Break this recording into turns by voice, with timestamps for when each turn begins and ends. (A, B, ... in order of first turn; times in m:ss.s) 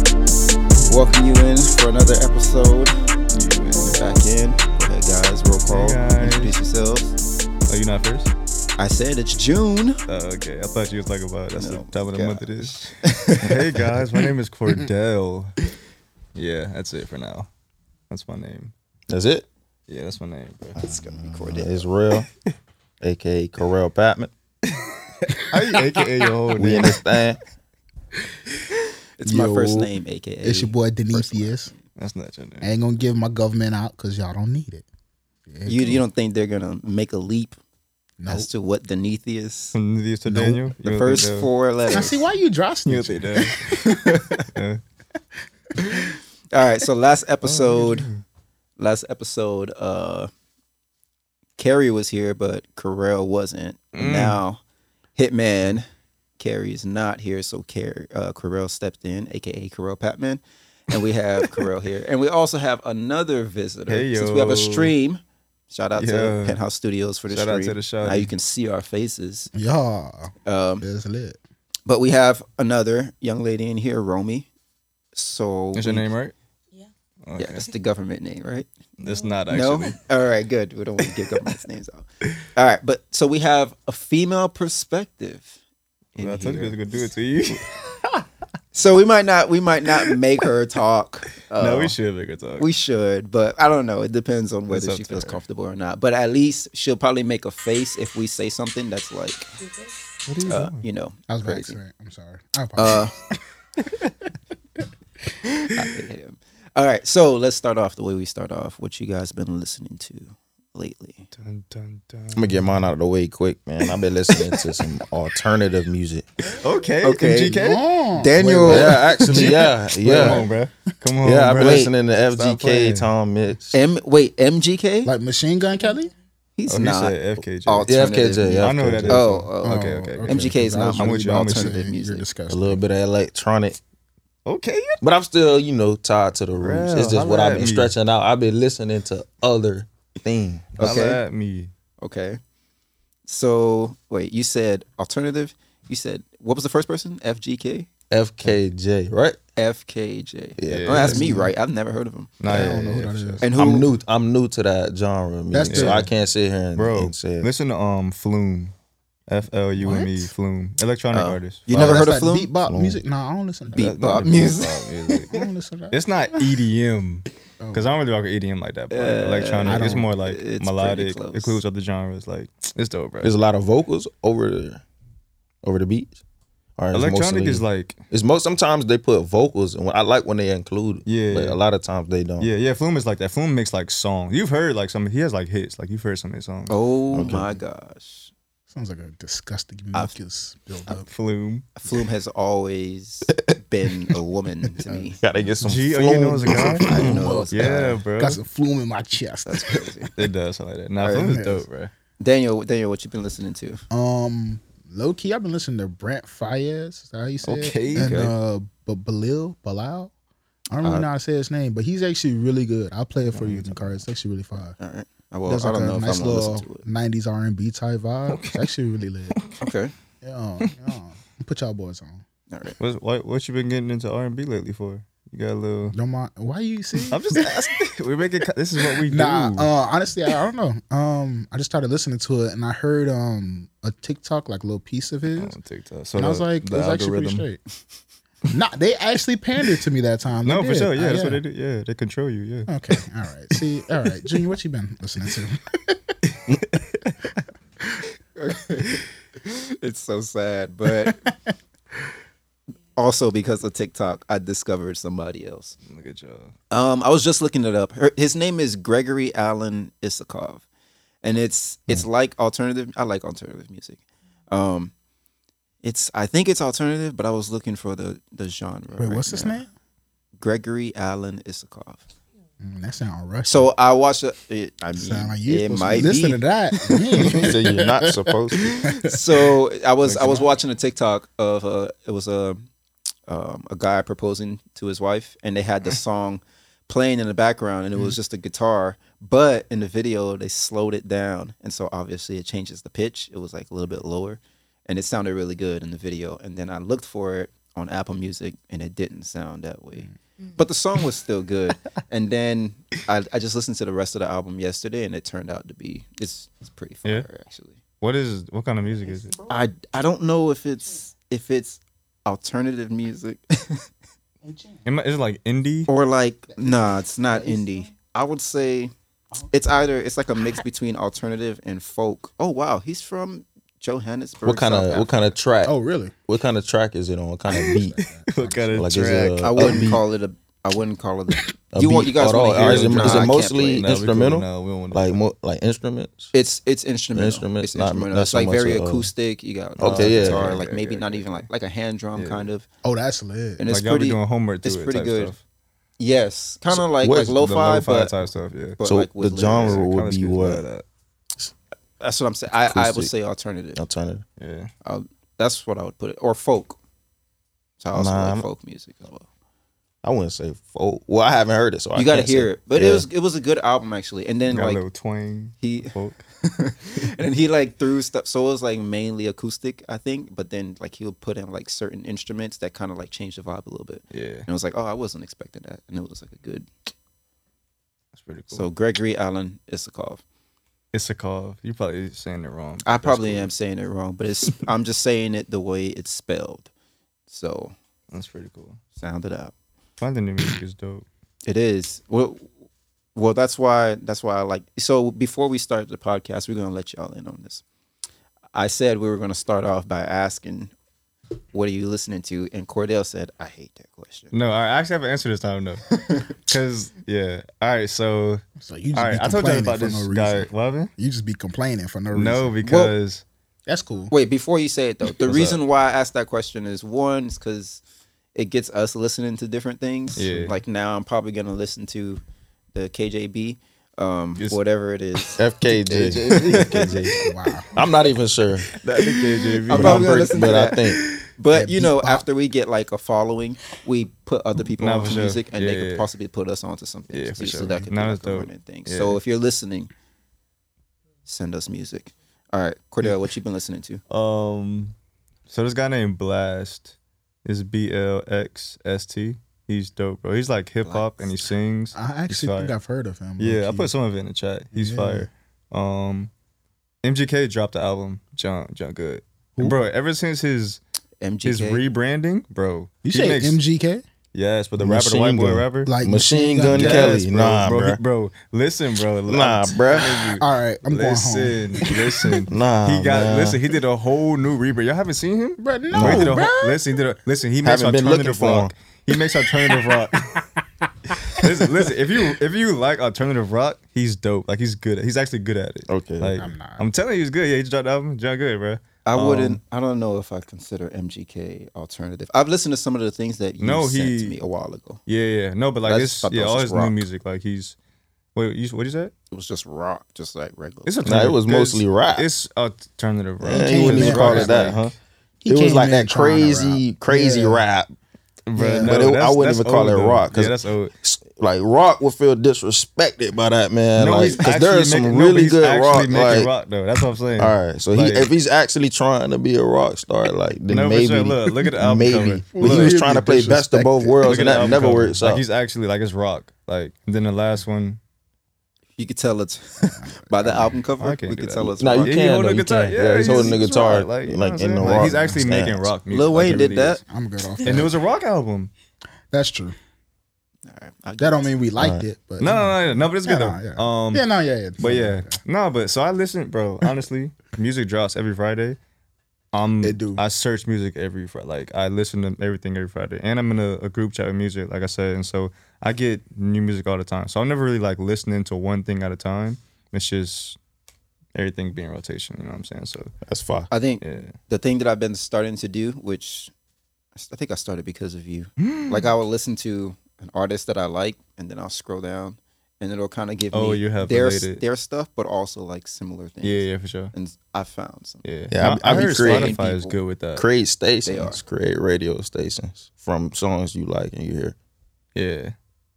0:00.8-0:07.2 A
0:05.7-0:06.6 B
0:07.7-0:08.3 B
0:08.8-0:10.0 A
0:10.1-0:15.6 B
0:11.6-0:13.9 A
0:16.3-0:17.5 B
0:18.1-0:18.7 B
0:19.1-0:19.5 C
0:19.9-0:20.8 B
0:20.8-0:22.3 C
0:20.8-0:21.9 A
0:23.0-0:24.3 C
0:25.3-0:27.0 B
0:26.6-0:27.4 C
0:29.2-0:31.8 A
0:29.2-0:29.9 D
0:30.4-0:31.7 D
0:32.0-0:32.7 B
0:32.6-0:34.8 D
0:35.5-0:36.0 D
0:35.6-0:37.5 A
0:38.2-0:38.5 D
0:38.3-0:39.8 A
0:39.7-0:41.5 B
0:40.3-0:40.6 D
0:40.8-0:42.2 A
0:41.9-0:43.9 D
0:42.8-0:43.6 B
0:43.7-0:44.4 A
0:44.5-0:44.8 B
0:45.8-0:48.1 A
0:47.4-0:48.2 B
0:48.8-0:50.3 A
0:51.6-0:54.6 A
0:53.9-0:54.4 B
0:55.2-0:55.8 A
0:56.4-1:09.5 A
1:03.9-1:04.9 B
1:05.9-1:06.6 B
1:07.3-1:08.3 B
1:09.5-1:11.4 D
1:10.4-1:10.8 A
1:11.9-1:14.5 A
1:15.1-1:16.1 A
1:15.7-1:16.3 B
1:17.2-1:17.7 B
1:17.4-1:18.7 A
1:19.0-1:20.0 B
1:19.5-1:25.6 A
1:26.2-1:27.1 A
1:26.2-1:27.6 B
1:28.7-1:31.9 A
1:31.6-1:32.6 B
1:32.6-1:39.5 A
1:34.7-1:35.4 B
1:40.2-1:40.8 B
1:40.5-1:41.8 A
1:41.3-1:43.0 D
1:42.8-1:43.1 A
1:45.9-1:51.3 A
1:51.3-1:52.8 B
1:52.3-1:56.2 C
1:56.5-1:57.8 B
1:57.0-1:57.6 A
1:57.6-2:00.5 D
1:58.2-1:59.5 A
1:58.6-2:00.4 C
1:59.2-2:03.1 B
2:01.2-2:03.8 C
2:03.7-2:05.1 A
2:05.0-2:06.1 D
2:06.6-2:12.2 A
2:06.7-2:07.9 B
2:07.9-2:09.3 C
2:08.5-2:11.9 B
2:09.6-2:12.8 D
2:12.5-2:13.8 C
2:14.4-2:15.0 B
2:15.0-2:20.8 C
2:16.6-2:17.9 B
2:20.8-2:21.2 A
2:20.8-2:21.7 B
2:22.0-2:22.4 A
2:23.2-2:27.9 A
2:28.1-2:29.4 C
2:29.6-2:32.3 A
2:30.6-2:31.2 C
2:30.7-2:31.4 B
2:31.0-2:31.5 D
2:32.4-2:33.4 B
2:32.4-2:33.5 D
2:33.4-2:33.9 A
2:33.5-2:37.5 C
2:35.5-2:36.1 D
2:35.7-2:36.0 B
2:36.7-2:38.7 B
2:39.3-2:42.0 B
2:39.8-2:40.3 D
2:41.1-2:42.5 A
2:41.7-2:44.4 D
2:41.7-2:42.1 C
2:42.6-2:43.0 C
2:43.7-2:45.3 B
2:43.7-2:45.4 A
2:45.2-2:46.5 D
2:45.9-2:53.3 B
2:47.6-2:47.8 D
2:48.9-2:51.6 A
2:49.6-2:50.1 D
2:53.2-2:54.8 C
2:55.6-2:56.2 C
2:56.8-3:02.5 C
2:56.9-2:58.0 B
3:01.0-3:01.6 B
3:02.4-3:06.7 B
3:06.7-3:08.3 A
3:07.1-3:07.5 C
3:08.7-3:11.1 D
3:10.9-3:11.7 B
3:11.8-3:15.2 A
3:14.8-3:15.1 D
3:15.2-3:17.4 C
3:15.6-3:18.4 B
3:16.8-3:18.0 A
3:16.9-3:20.1 D
3:19.4-3:20.1 A
3:20.2-3:21.9 B
3:21.0-3:21.4 A
3:21.2-3:21.6 D
3:22.2-3:23.8 A
3:23.9-3:30.1 D
3:27.4-3:28.2 B
3:27.9-3:28.3 A
3:30.7-3:34.8 D
3:33.3-3:34.0 B
3:34.8-3:36.8 A
3:35.5-3:39.4 D
3:38.3-3:38.7 B
3:39.6-3:39.9 A
3:40.2-3:42.2 D
3:42.8-3:45.9 B
3:45.9-3:47.7 D
3:47.1-3:49.7 B
3:48.9-3:55.5 D
3:55.3-3:57.5 B
3:56.2-3:57.6 D
3:58.5-4:01.4 D
4:00.4-4:02.7 B
4:02.7-4:06.1 D
4:06.3-4:07.3 B
4:08.4-4:11.2 A
4:13.0-4:15.8 A
4:15.9-4:16.5 B
4:16.7-4:20.6 A
4:21.2-4:24.9 A
4:25.8-4:29.6 A
4:29.0-4:29.7 D
4:30.4-4:32.0 A
4:32.6-4:33.7 D
4:33.4-4:37.5 A
4:35.0-4:39.2 D
4:37.2-4:38.7 C
4:39.0-4:42.7 A
4:43.3-5:07.8 A
5:08.0-5:09.4 B
5:09.5-5:13.9 A
5:14.4-5:14.8 D
5:14.8-5:15.9 B
5:15.9-5:18.9 A
5:16.5-5:16.8 D
5:17.3-5:17.6 D
5:19.5-5:25.3 A
5:24.4-5:28.0 C
5:25.6-5:26.1 D
5:27.5-5:29.0 D
5:27.5-5:29.9 B
5:28.8-5:30.0 C
5:29.4-5:33.9 A
5:31.7-5:36.3 C
5:32.8-5:35.2 B
5:36.3-5:42.7 A
5:37.1-5:39.1 C
5:39.8-5:41.4 B
5:39.8-5:40.5 C
5:42.2-5:42.5 B
5:42.8-5:43.6 D
5:43.6-5:45.3 A
5:43.7-5:45.4 B
5:46.0-5:48.1 A
5:47.0-5:47.5 C
5:47.2-5:48.8 B
5:48.8-5:49.8 A
5:48.8-5:50.6 C
5:49.5-5:50.8 B
5:52.0-5:53.8 A
5:52.6-5:53.1 C
5:53.8-5:54.2 C
5:54.4-5:54.7 B
5:54.8-5:56.8 A
5:57.8-5:59.2 A
5:57.9-5:58.5 C
6:00.0-6:03.0 C
6:01.9-6:04.8 A
6:04.5-6:06.2 B
6:05.6-6:05.9 A
6:06.4-6:16.7 A
6:14.1-6:14.5 B
6:18.1-6:18.7 B
6:18.5-6:20.2 A
6:20.9-6:23.5 B
6:22.8-6:26.7 A
6:27.3-6:27.7 A
6:28.1-6:28.8 B
6:29.0-6:29.5 A
6:30.0-6:31.0 B
6:31.4-6:32.5 A
6:33.1-6:37.6 A
6:38.5-6:40.7 A
6:41.5-6:44.3 A
6:44.3-6:48.4 B
6:48.6-6:52.5 D
6:48.9-6:50.9 B
6:52.1-6:53.2 B
6:52.6-6:52.9 A
6:53.7-6:54.1 D
6:54.1-6:57.8 A
6:55.2-6:55.6 B
6:58.3-7:02.2 A
7:00.2-7:00.6 B
7:02.7-7:07.0 A
7:05.4-7:07.1 C
7:05.7-7:07.7 D
7:07.7-7:08.7 C
7:08.7-7:10.6 B
7:09.7-7:11.0 C
7:09.7-7:19.9 A
7:11.5-7:12.2 D
7:14.8-7:16.1 B
7:17.1-7:19.2 B
7:21.2-7:24.0 A
7:24.1-7:24.9 B
7:25.5-7:26.9 B
7:27.4-7:32.7 B
7:30.8-7:31.4 A
7:31.9-7:33.9 D
7:33.4-7:36.3 B
7:34.7-7:35.3 D
7:37.0-7:40.8 B
7:41.2-7:41.8 A
7:41.4-7:43.6 B
7:43.0-7:44.0 D
7:44.3-7:45.9 B
7:44.8-7:48.0 C
7:45.8-7:47.2 D
7:46.7-8:00.4 B
7:49.3-7:50.3 C
7:49.9-7:52.4 D
7:52.5-7:53.6 C
7:55.6-7:56.8 D
7:55.9-7:56.4 C
7:57.6-7:58.7 C
8:01.3-8:09.6 B
8:05.9-8:06.4 C
8:06.4-8:06.8 D
8:09.0-8:15.0 A
8:13.6-8:14.4 B
8:15.1-8:17.8 B
8:15.8-8:17.0 A
8:18.3-8:19.1 B
8:19.3-8:20.9 A
8:20.8-8:24.9 B
8:21.0-8:22.3 C
8:23.4-8:24.9 C
8:23.4-8:24.8 D
8:25.4-8:27.6 D
8:25.5-8:27.9 C
8:28.5-8:30.9 B
8:28.6-8:28.9 D
8:28.8-8:36.5 C
8:34.0-8:38.3 B
8:37.4-8:45.4 C
8:40.7-8:43.0 B
8:42.5-8:44.8 D
8:44.2-8:48.0 B
8:49.0-8:52.2 A
8:49.8-8:50.8 D
8:51.0-8:57.0 B
8:51.8-8:55.9 C
8:53.2-8:53.6 D
8:54.8-8:55.4 D
8:56.1-8:57.0 A
8:57.1-8:57.9 D
8:57.6-8:58.7 B
8:59.3-8:59.7 D
9:00.6-9:01.5 A
9:01.2-9:05.4 D
9:01.8-9:02.0 C
9:02.4-9:04.2 B
9:04.8-9:08.8 B
9:09.5-9:20.6 B
9:09.8-9:10.2 D
9:21.3-9:23.1 B
9:23.2-9:23.7 C
9:23.7-9:26.5 A
9:24.0-9:24.3 B
9:27.2-9:38.2 A
9:28.6-9:29.1 B
9:33.5-9:34.6 B
9:36.4-9:37.1 B
9:38.2-9:40.4 B
9:38.5-9:39.5 C
9:38.8-9:39.9 A
9:40.3-9:44.5 C
9:41.0-9:41.4 A
9:45.1-9:45.5 B